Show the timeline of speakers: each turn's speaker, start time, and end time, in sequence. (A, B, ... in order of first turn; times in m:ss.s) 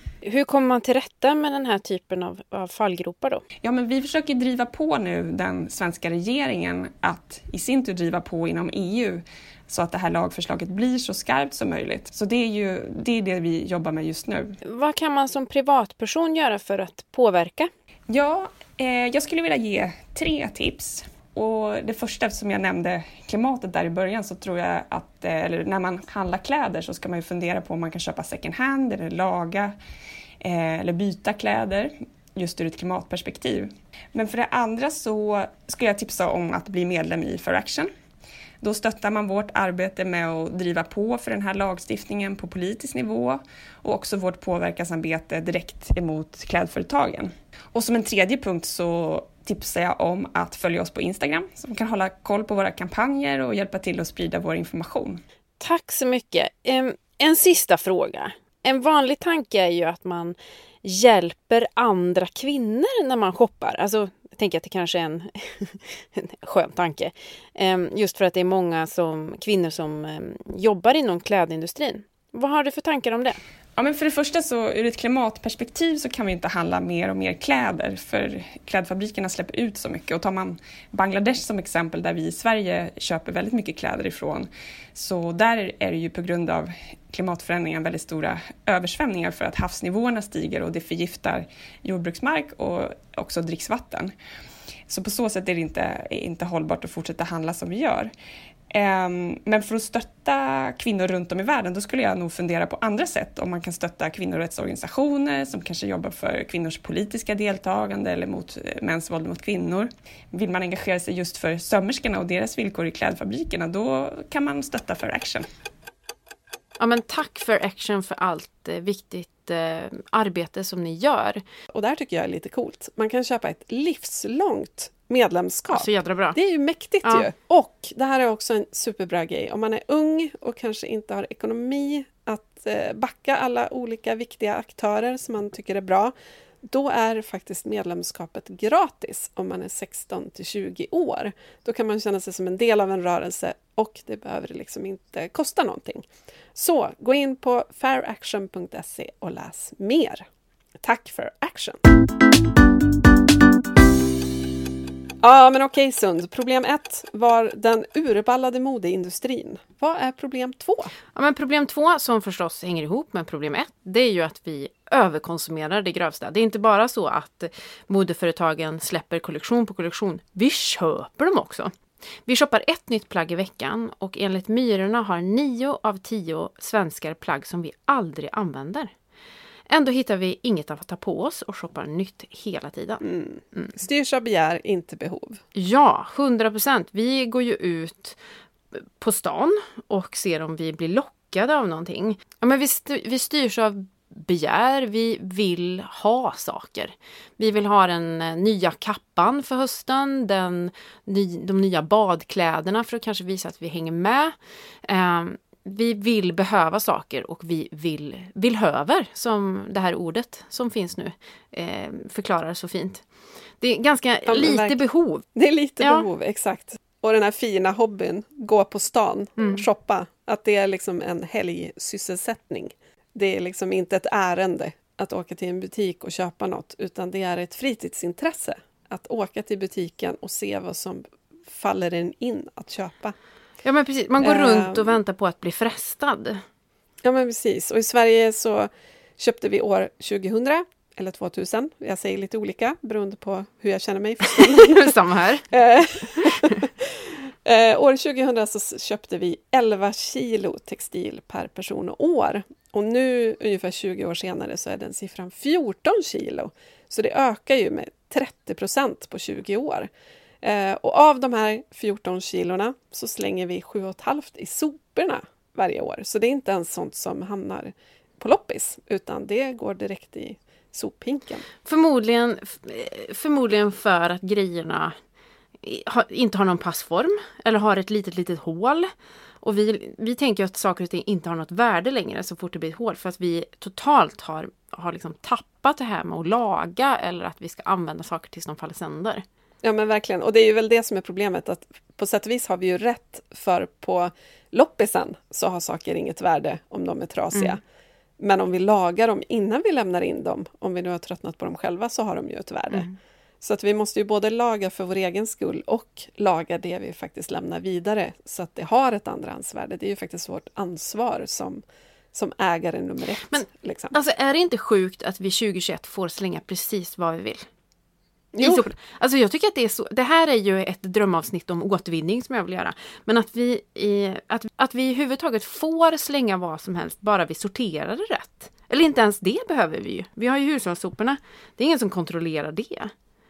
0:00.2-0:03.4 A
0:03.6-0:14.6 B
0:14.6-0:17.7 A
0:18.1-0:29.7 B
0:30.4-0:37.9 B
0:38.6-0:55.2 B
0:55.6-1:13.4 A
1:13.8-1:34.1 B
1:34.9-1:38.1 B
1:38.7-1:55.5 B
1:56.8-2:01.4 A
2:01.7-2:30.2 C
2:05.7-2:06.4 A
2:30.8-2:31.8 C
2:35.2-2:40.9 C
2:41.2-2:51.7 A
2:52.3-2:58.9 A
2:59.7-3:03.7 A
3:03.0-3:05.4 C
3:05.6-3:08.2 A
3:08.7-3:33.0 A
3:33.6-3:35.2 A
3:34.3-3:34.8 C
3:35.3-3:53.2 C
3:35.8-3:36.1 A
3:53.6-3:56.4 A
3:54.2-3:55.0 C
3:57.0-4:05.0 C
4:04.2-4:05.4 A
4:05.5-4:19.9 C
4:06.1-4:06.6 A
4:20.4-4:31.5 C
4:31.6-4:35.0 A
4:35.6-4:38.9 A
4:39.4-4:49.2 A
4:49.6-4:57.6 C
4:58.2-5:02.9 C
5:03.4-5:11.6 C
5:12.1-5:14.0 C
5:13.3-5:17.5 A
5:18.3-5:18.7 C
5:18.4-5:32.9 A